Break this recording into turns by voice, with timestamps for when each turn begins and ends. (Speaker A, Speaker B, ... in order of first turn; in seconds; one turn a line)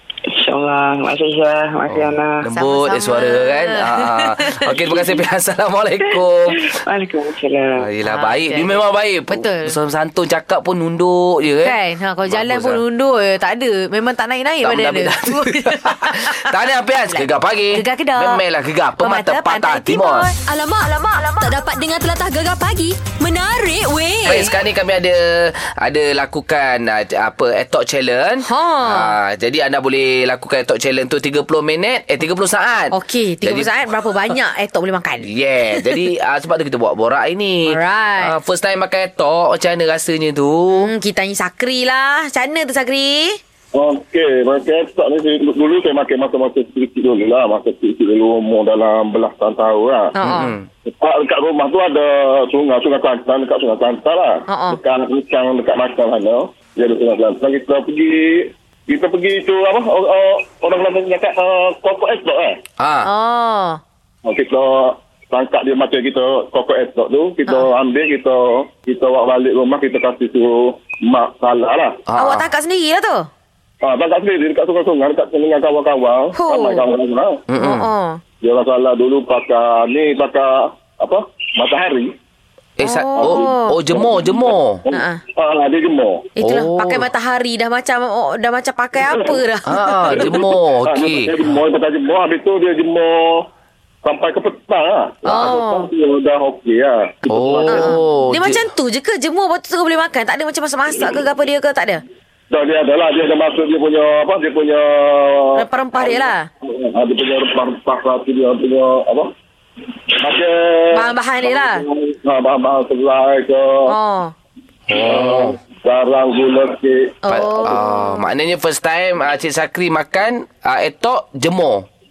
Speaker A: 0.3-2.5
Speaker B: 1.9-6.7
Speaker C: 2.5-4.8
Speaker A: 6.5-7.9
Speaker B: 7.8-12.8
Speaker C: 8.0-9.7
Speaker C: 11.6-16.5
Speaker B: 14.6-20.3
Speaker C: 17.1-18.4
Speaker C: 19.0-20.3
Speaker D: 20.4-24.5
Speaker B: 24.2-33.7
Speaker C: 28.4-29.1
Speaker C: 32.9-36.0
Speaker B: 35.2-40.9
Speaker C: 37.7-38.3
Speaker C: 40.7-43.4
Speaker E: 43.7-50.1
Speaker C: 50.1-50.5
Speaker B: 50.2-50.7
Speaker E: 50.9-62.5
Speaker C: 54.5-54.8
Speaker B: 62.8-63.1
Speaker C: 63.0-63.8
Speaker E: 64.2-72.0
Speaker B: 72.1-72.5
Speaker C: 72.2-73.3
Speaker E: 73.8-77.4
Speaker C: 76.3-76.8
Speaker B: 77.5-77.9
Speaker C: 77.6-78.2
Speaker E: 78.4-82.1
Speaker B: 82.8-84.8
Speaker C: 82.8-83.8
Speaker E: 83.2-86.3
Speaker C: 84.9-85.2
Speaker C: 86.4-90.4
Speaker B: 86.4-87.1
Speaker E: 89.1-89.3
Speaker B: 89.7-91.5
Speaker E: 90.1-93.5
Speaker E: 94.0-97.9
Speaker C: 95.3-95.9
Speaker B: 97.3-98.6
Speaker C: 97.7-102.0
Speaker E: 102.5-109.3
Speaker C: 105.5-106.5
Speaker E: 110.2-113.9
Speaker C: 110.9-111.8
Speaker C: 113.9-114.3
Speaker B: 114.9-115.6
Speaker E: 114.9-117.2
Speaker C: 117.2-118.3
Speaker B: 117.3-121.9